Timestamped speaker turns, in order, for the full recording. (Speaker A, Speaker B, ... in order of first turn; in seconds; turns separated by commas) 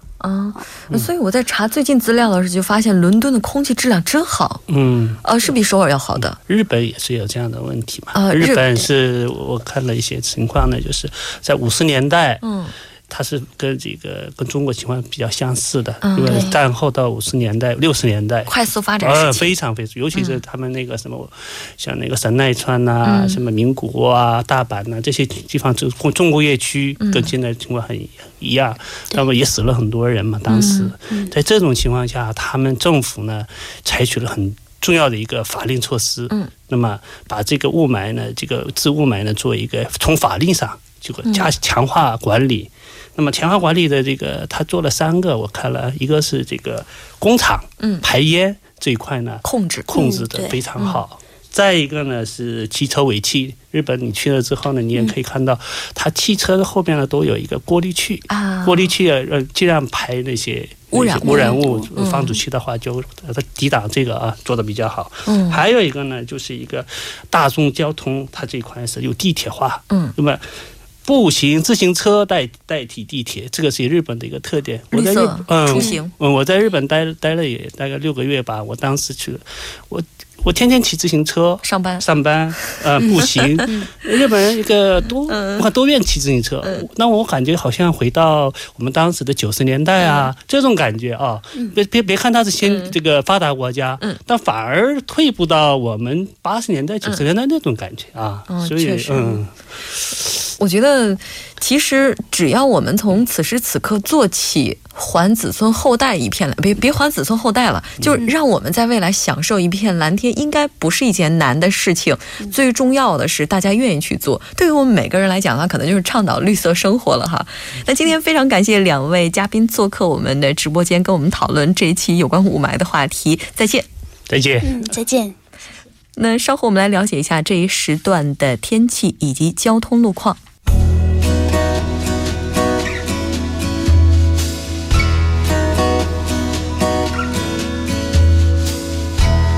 Speaker A: 0.2-4.6, Speaker B: 4.7-5.2, Speaker A: 5.2-6.4, Speaker B: 6.2-12.4, Speaker A: 8.2-8.7, Speaker A: 12.4-12.7, Speaker B: 13.1-70.4, Speaker A: 16.0-16.5, Speaker C: 16.3-16.5, Speaker A: 18.5-19.6, Speaker A: 20.1-20.4, Speaker A: 23.1-23.4, Speaker A: 27.0-27.3, Speaker A: 30.5-30.9, Speaker A: 49.4-49.9, Speaker C: 49.9-50.6, Speaker A: 50.8-51.0, Speaker A: 58.3-58.9, Speaker A: 60.9-62.4, Speaker C: 61.2-61.8, Speaker A: 65.3-65.6, Speaker B: 71.0-99.5, Speaker A: 74.9-76.1, Speaker A: 81.6-82.0, Speaker A: 83.2-83.7, Speaker A: 85.3-85.7, Speaker A: 90.0-90.3, Speaker A: 92.6-93.0, Speaker A: 98.5-99.4, Speaker A: 100.6-123.9, Speaker B: 108.0-108.2, Speaker B: 124.3-124.8, Speaker C: 124.6-125.4, Speaker A: 126.2-130.4